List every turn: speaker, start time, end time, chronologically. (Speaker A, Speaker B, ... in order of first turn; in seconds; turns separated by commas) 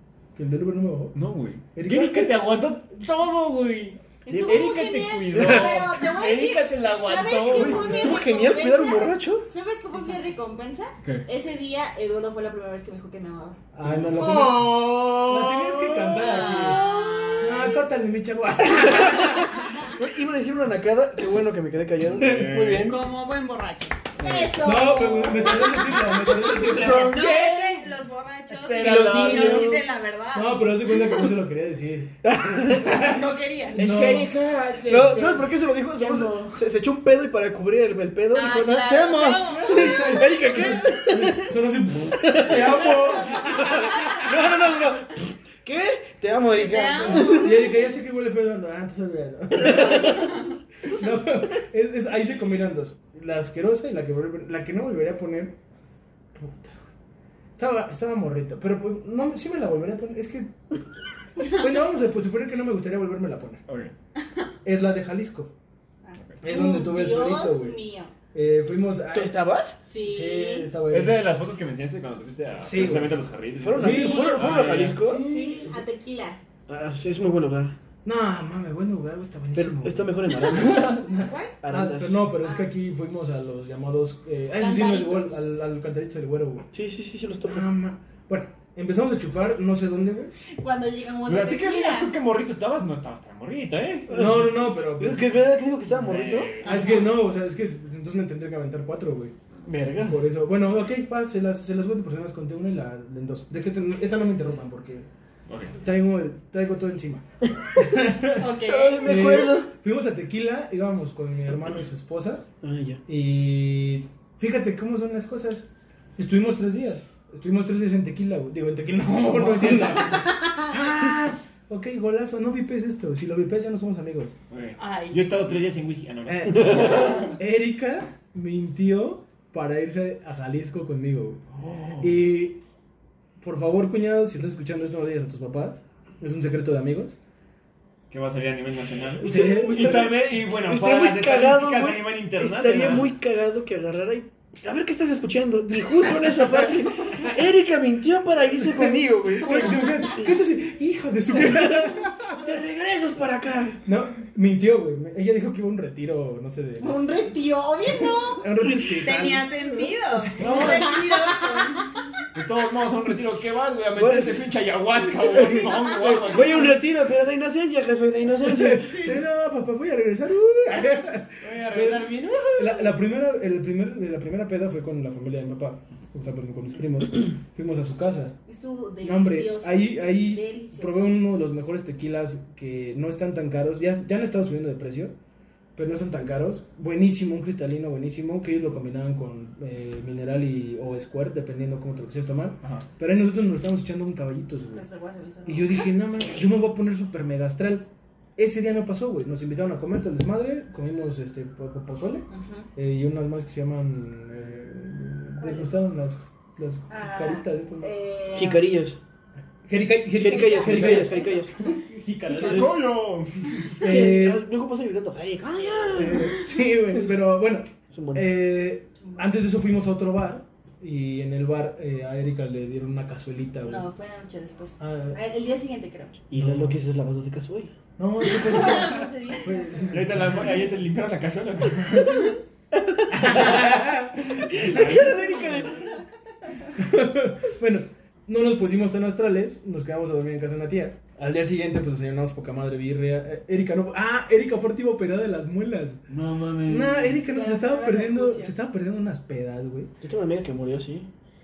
Speaker A: 0.3-1.2, Speaker B: 1.1-8.2, Speaker A: 1.7-2.4, Speaker C: 4.2-13.6, Speaker D: 4.3-4.6, Speaker D: 5.3-5.8, Speaker D: 7.5-9.5, Speaker B: 11.0-11.3, Speaker A: 13.7-16.8, Speaker B: 13.8-16.5, Speaker E: 16.2-16.9, Speaker C: 16.2-17.7, Speaker A: 17.4-19.6, Speaker D: 19.0-23.0, Speaker B: 22.0-22.9, Speaker E: 22.8-24.0, Speaker B: 24.2-24.7, Speaker C: 24.2-28.0, Speaker A: 24.6-27.1, Speaker B: 26.4-27.8, Speaker D: 26.7-27.1, Speaker E: 27.1-30.6, Speaker B: 28.5-29.8, Speaker D: 28.8-29.8, Speaker A: 29.1-29.6, Speaker A: 30.3-34.3, Speaker D: 32.2-33.1, Speaker E: 33.1-33.8, Speaker B: 33.7-36.5, Speaker D: 34.9-42.9, Speaker E: 38.3-40.4, Speaker A: 39.6-43.7, Speaker E: 42.9-44.1, Speaker D: 43.5-47.6, Speaker E: 46.5-47.6, Speaker A: 47.1-55.6, Speaker D: 49.6-50.2, Speaker A: 56.3-56.9, Speaker A: 57.6-60.8, Speaker A: 61.4-63.6, Speaker B: 63.7-63.9, Speaker A: 64.6-65.5, Speaker C: 66.0-68.1, Speaker A: 66.4-67.8, Speaker A: 68.3-69.4, Speaker D: 69.1-69.8, Speaker C: 69.9-70.7, Speaker A: 70.0-71.2, Speaker B: 70.9-75.1, Speaker A: 72.6-75.8, Speaker D: 73.6-75.2, Speaker C: 73.9-74.3, Speaker C: 75.2-76.4, Speaker D: 76.7-77.8, Speaker A: 78.0-86.7, Speaker D: 79.5-81.0, Speaker C: 81.1-81.5, Speaker D: 81.6-82.3, Speaker C: 82.4-82.7, Speaker C: 84.5-85.4, Speaker D: 86.7-87.7, Speaker A: 87.4-90.3, Speaker C: 90.5-92.1, Speaker B: 91.2-94.1, Speaker A: 94.1-95.3, Speaker D: 94.1-96.6, Speaker B: 96.0-97.1, Speaker C: 96.6-97.0, Speaker A: 96.6-99.3, Speaker D: 99.6-100.2, Speaker A: 100.0-105.1, Speaker B: 105.5-105.8, Speaker A: 105.8-112.4, Speaker E: 108.4-109.0, Speaker D: 108.4-109.7, Speaker C: 108.7-109.0, Speaker D: 112.6-113.0, Speaker A: 113.0-124.3, Speaker B: 119.4-120.2, Speaker B: 124.5-127.3, Speaker E: 124.8-125.2, Speaker A: 126.2-131.4, Speaker D: 126.6-127.0, Speaker B: 131.5-132.2, Speaker A: 132.0-132.6, Speaker A: 133.4-137.2, Speaker B: 138.1-143.1, Speaker A: 139.2-139.9, Speaker D: 139.2-150.2, Speaker A: 148.7-152.4, Speaker C: 149.6-150.2, Speaker D: 151.3-153.8, Speaker A: 153.8-157.1, Speaker C: 156.8-158.4, Speaker A: 158.0-160.9, Speaker E: 159.0-161.8, Speaker C: 160.4-161.8, Speaker B: 162.3-166.8, Speaker D: 163.9-164.4, Speaker D: 165.2-169.2, Speaker A: 168.4-178.4, Speaker B: 171.4-173.0, Speaker C: 178.5-181.2, Speaker A: 179.0-185.1, Speaker A: 185.8-194.8, Speaker C: 194.7-195.8, Speaker A: 195.4-207.9, Speaker C: 202.3-202.7, Speaker C: 205.4-205.8, Speaker C: 206.9-208.7, Speaker D: 208.3-209.0, Speaker A: 209.7-212.8, Speaker D: 210.1-211.6, Speaker C: 210.2-211.8, Speaker B: 212.3-213.9, Speaker A: 213.8-214.4, Speaker D: 213.8-216.4, Speaker A: 215.9-223.9, Speaker D: 217.9-218.3, Speaker C: 223.6-226.2, Speaker A: 224.8-225.2, Speaker D: 226.3-227.7, Speaker A: 226.3-226.7, Speaker A: 228.0-230.6, Speaker C: 228.2-230.1, Speaker B: 229.9-232.3, Speaker D: 232.7-233.7, Speaker A: 233.1-235.7, Speaker B: 234.4-235.5, Speaker D: 234.5-235.9, Speaker A: 236.7-246.0, Speaker B: 246.1-247.1, Speaker A: 246.7-249.9, Speaker C: 246.9-248.5, Speaker D: 250.0-251.1